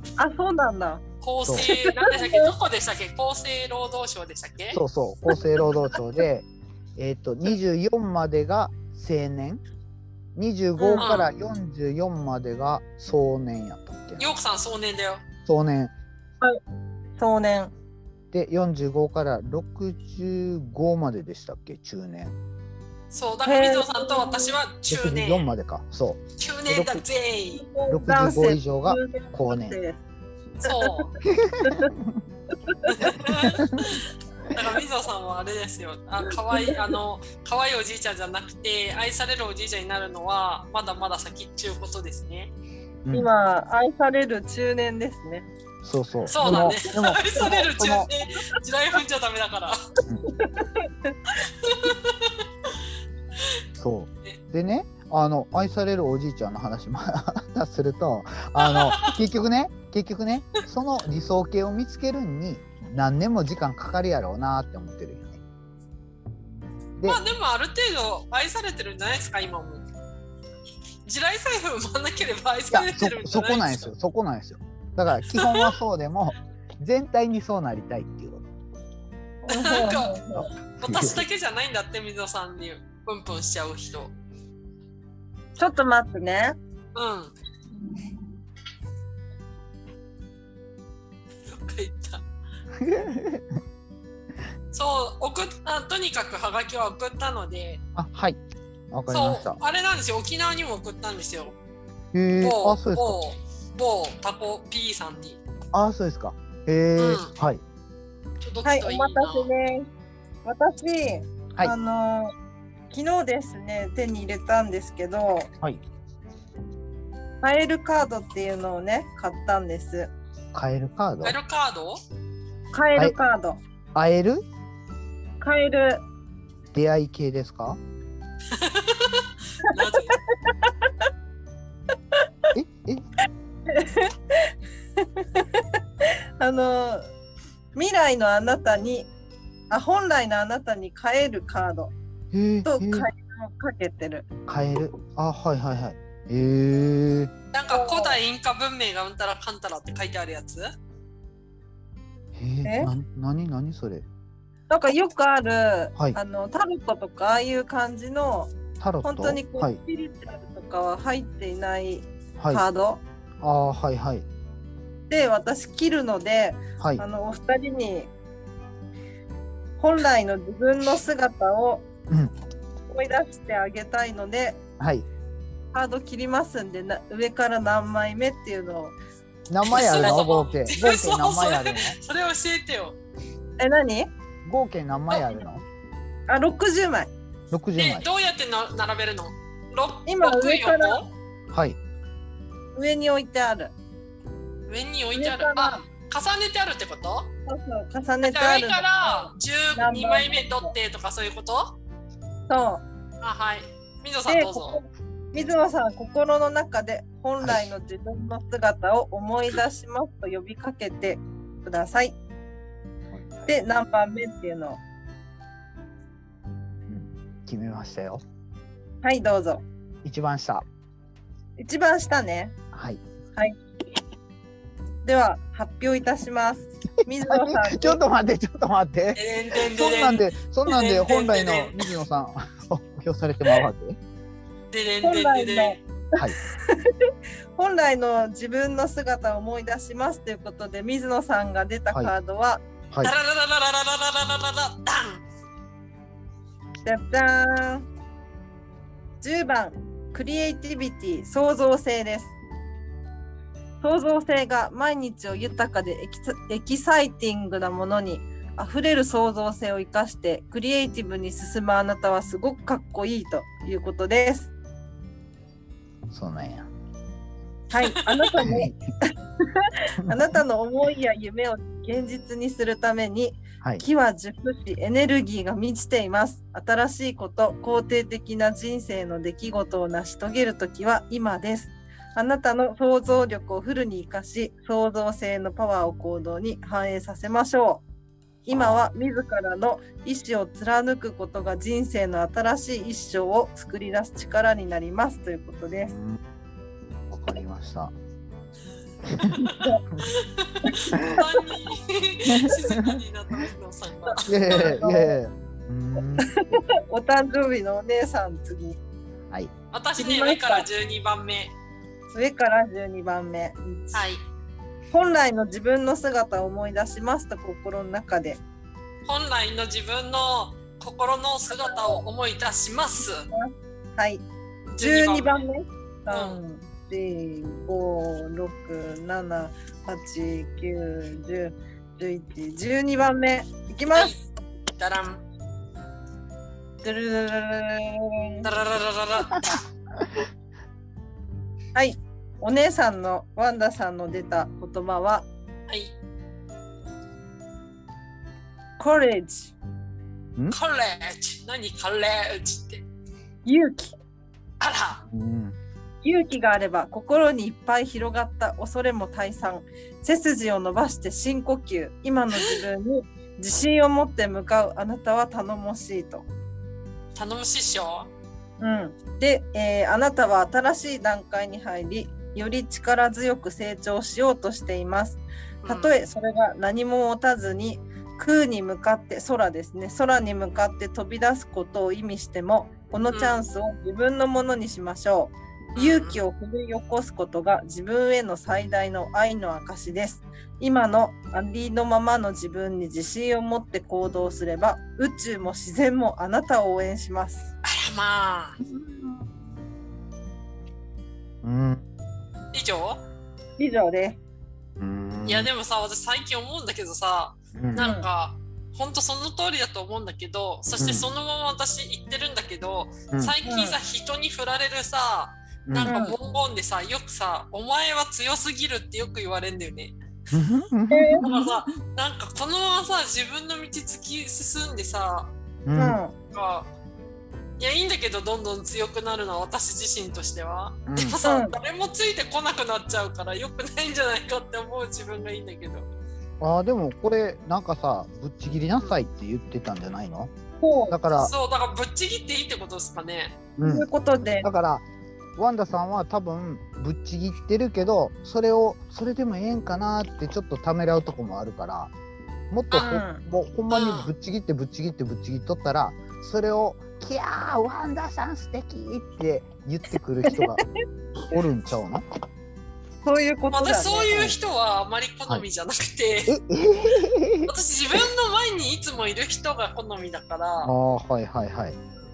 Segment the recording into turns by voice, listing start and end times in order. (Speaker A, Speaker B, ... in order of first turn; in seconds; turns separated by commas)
Speaker A: 0.2-1.0, Speaker B: 1.2-4.8, Speaker A: 1.5-2.5, Speaker C: 4.7-9.6, Speaker C: 10.3-14.3, Speaker A: 10.8-11.1, Speaker B: 11.0-11.3, Speaker B: 14.2-15.2, Speaker C: 15.4-15.9, Speaker A: 17.2-17.7, Speaker C: 18.3-22.4, Speaker B: 23.1-25.5, Speaker A: 23.4-24.6, Speaker C: 24.9-27.0, Speaker B: 26.4-27.6, Speaker A: 27.5-30.0, Speaker C: 27.9-29.8, Speaker B: 30.6-31.1, Speaker A: 30.6-31.0, Speaker C: 31.3-32.2, Speaker A: 31.6-31.9, Speaker A: 32.6-33.4, Speaker B: 32.9-42.5, Speaker C: 33.4-34.0, Speaker A: 36.3-36.9, Speaker A: 43.1-45.5, Speaker C: 45.8-48.1, Speaker B: 46.3-49.8, Speaker A: 46.4-46.7, Speaker A: 47.3-47.7, Speaker A: 50.3-51.1, Speaker B: 51.6-52.7, Speaker C: 53.8-65.4, Speaker B: 58.6-59.2, Speaker B: 67.0-69.8, Speaker B: 71.0-73.9, Speaker C: 72.7-78.5, Speaker B: 75.3-75.7, Speaker A: 79.5-80.5, Speaker B: 79.5-84.1, Speaker C: 80.3-81.2, Speaker A: 85.6-86.5, Speaker B: 86.9-87.3, Speaker B: 91.5-92.2, Speaker C: 92.8-93.5, Speaker B: 94.7-97.8, Speaker C: 98.0-98.4, Speaker C: 98.9-99.6, Speaker B: 99.1-101.5, Speaker C: 102.1-103.2, Speaker B: 102.4-105.4, Speaker C: 105.7-107.6, Speaker B: 107.0-107.3, Speaker B: 108.4-109.5, Speaker A: 108.6-109.9, Speaker A: 110.4-112.3, Speaker A: 112.9-115.5, Speaker A: 117.4-120.1, Speaker C: 120.5-121.4, Speaker B: 121.2-122.0, Speaker A: 122.7-123.6, Speaker C: 123.9-124.4, Speaker A: 125.4-126.0, Speaker C: 126.7-127.8, Speaker B: 128.5-130.2, Speaker A: 129.6-130.7, Speaker C: 132.5-133.0, Speaker A: 133.7-137.1, Speaker A: 137.7-139.1, Speaker A: 139.7-141.9, Speaker C: 142.3-143.1, Speaker A: 142.6-144.2, Speaker C: 144.5-147.3, Speaker B: 147.5-150.7, Speaker A: 147.7-148.2, Speaker C: 152.3-154.0, Speaker A: 152.6-152.9, Speaker A: 154.7-163.0, Speaker C: 158.8-159.8, Speaker C: 163.4-164.2, Speaker A: 165.1-168.1, Speaker A: 169.8-171.8, Speaker A: 172.9-174.6, Speaker C: 174.8-175.1, Speaker A: 175.7-178.9, Speaker C: 179.5-181.9, Speaker B: 179.7-183.0, Speaker A: 183.6-184.1, Speaker C: 184.4-185.6, Speaker A: 186.3-187.1, Speaker C: 187.5-188.1, Speaker B: 187.8-191.1, Speaker A: 190.1-191.0, Speaker C: 191.5-191.8, Speaker A: 192.7-193.7, Speaker B: 194.7-197.3, Speaker A: 195.1-195.8, Speaker A: 197.4-200.7, Speaker B: 198.2-201.8, Speaker A: 202.5-202.8, Speaker B: 203.2-204.8, Speaker A: 204.3-212.2, Speaker C: 207.4-207.7, Speaker C: 213.1-213.5, Speaker A: 213.5-214.8, Speaker C: 216.9-218.2, Speaker A: 219.0-219.6, Speaker C: 220.0-220.6, Speaker A: 221.6-222.5, Speaker C: 222.7-223.0, Speaker A: 225.0-228.0, Speaker C: 227.2-234.0, Speaker B: 229.2-231.7, Speaker B: 234.7-235.8, Speaker A: 235.0-236.9, Speaker A: 237.6-242.6, Speaker B: 243.0-245.2, Speaker A: 246.8-247.8, Speaker A: 249.2-252.3, Speaker A: 253.8-264.5, Speaker C: 266.1-266.7, Speaker A: 267.7-287.8, Speaker B: 267.8-268.3, Speaker C: 268.4-268.8, Speaker C: 270.0-270.3, Speaker A: 288.4-295.9, Speaker C: 288.5-288.8, Speaker C: 295.8-296.2, Speaker C: 297.1-297.9, Speaker C: 299.1-299.3, Speaker B: 299.4-304.7, Speaker A: 299.4-299.8, Speaker C: 302.3-303.0, Speaker A: 304.1-305.1, Speaker C: 304.2-306.5, Speaker A: 306.2-308.8, Speaker B: 309.7-311.5, Speaker A: 310.0-310.7, Speaker A: 312.1-314.1, Speaker B: 313.9-314.2, Speaker A: 314.9-318.4, Speaker B: 319.1-323.2, Speaker A: 321.5-322.0, Speaker A: 323.3-324.2, Speaker B: 324.7-325.4, Speaker A: 324.8-334.1, Speaker B: 326.1-326.4, Speaker B: 333.9-335.2, Speaker A: 336.8-338.4, Speaker B: 338.4-339.5, Speaker A: 341.7-345.2, Speaker B: 345.7-345.9, Speaker A: 348.8-349.5, Speaker B: 350.5-352.8, Speaker A: 353.4-353.9, Speaker B: 354.6-355.0, Speaker C: 355.1-355.6, Speaker A: 356.0-366.2, Speaker B: 367.1-368.1, Speaker A: 368.6-397.5, Speaker B: 375.6-375.9, Speaker B: 383.1-383.4, Speaker B: 385.7-386.2, Speaker B: 397.6-398.6, Speaker C: 398.6-399.3, Speaker C: 401.4-401.8, Speaker B: 402.5-403.0, Speaker A: 403.6-404.2, Speaker C: 404.8-405.5, Speaker B: 405.2-419.9, Speaker C: 407.5-407.9, Speaker A: 407.8-408.1, Speaker C: 410.8-411.1, Speaker A: 413.4-413.8, Speaker C: 415.7-416.0, Speaker A: 415.9-416.1, Speaker C: 420.3-421.6, Speaker A: 420.9-421.3, Speaker B: 421.2-425.3, Speaker C: 425.6-426.0, Speaker A: 425.7-426.1, Speaker B: 426.2-426.7, Speaker B: 427.6-435.9, Speaker C: 430.9-431.2, Speaker A: 431.2-431.6, Speaker C: 436.4-440.3, Speaker A: 440.6-441.0, Speaker C: 440.9-441.3, Speaker B: 441.1-443.4, Speaker C: 443.6-443.9, Speaker A: 443.6-444.5, Speaker C: 444.4-444.8, Speaker C: 445.4-451.9, Speaker C: 452.5-460.6, Speaker A: 452.7-453.2, Speaker B: 453.7-454.1, Speaker A: 460.3-460.5, Speaker C: 461.3-462.0, Speaker A: 463.0-464.2, Speaker B: 463.5-466.4, Speaker C: 466.3-467.5, Speaker B: 467.4-470.7, Speaker C: 470.6-471.8